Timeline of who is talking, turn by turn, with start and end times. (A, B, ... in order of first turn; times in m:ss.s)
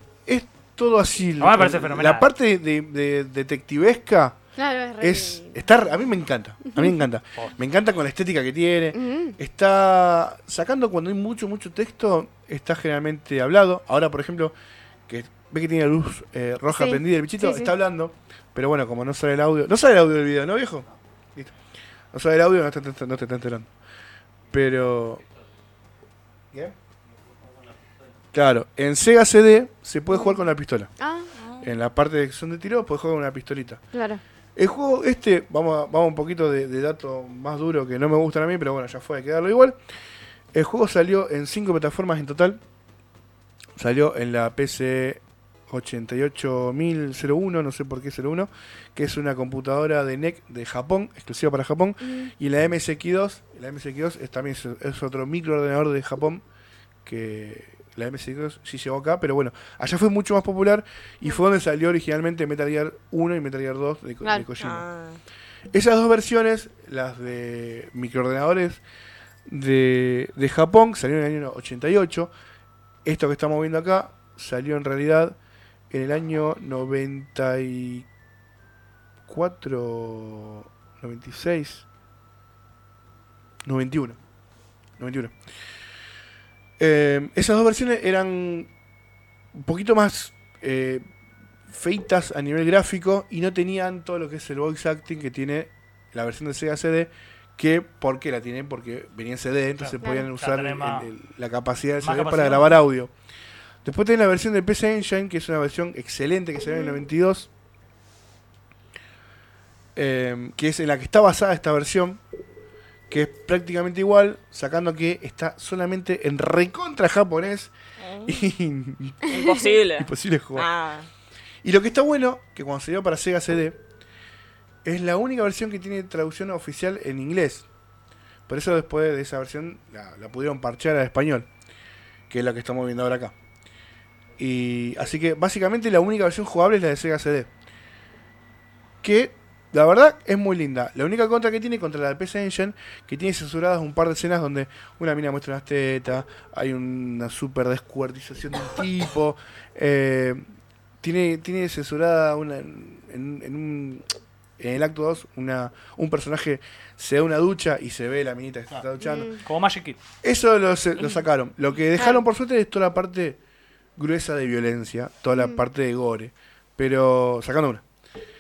0:00.3-0:04.4 A
0:01.4-0:02.3 B
0:04.6-0:05.6 C
0:05.0-0:14.5 A
0:08.9-0:09.4 C
0:15.1-0:21.5 A
0:16.7-0:17.7 C
0:22.1-0:23.7 A
0:24.5-0:25.2 A
0:28.3-0:30.9 A
0:31.0-0:31.3 C
0:31.4-0:31.7 D
0:31.6-0:33.8 A
0:33.9-0:34.2 C
0:34.6-0:39.8 A
0:40.5-0:42.6 A
0:43.8-0:56.4 A
0:57.0-1:04.9 A
1:04.6-1:05.2 D
1:05.7-1:08.8 A
1:09.5-1:12.3 A
1:13.0-1:15.4 A
1:15.9-1:18.1 A
1:19.3-1:21.9 A
1:23.6-1:24.2 A
1:25.0-1:25.3 A
1:26.8-1:28.7 A
1:29.5-1:31.0 A
1:31.7-1:43.1 A
1:39.8-1:41.1 B
1:40.0-1:40.3 C
1:42.0-1:42.8 B
1:43.8-1:47.5 A
1:50.0-1:52.2 A
1:53.1-1:57.7 A
1:58.0-1:58.5 D
1:58.3-1:59.4 A
1:59.3-2:01.1 D
1:59.3-1:59.7 C
1:59.9-2:00.7 A
2:01.6-2:03.8 A
2:04.8-2:07.7 A
2:08.5-2:11.5 A
2:12.3-2:13.3 A
2:14.4-2:17.5 A
2:19.0-2:30.4 A
2:31.0-2:34.0 A
2:34.6-2:39.3 A
2:39.0-2:39.4 C
2:39.4-2:40.0 B
2:40.2-2:43.4 A
2:42.0-2:42.2 C
2:44.0-2:47.8 A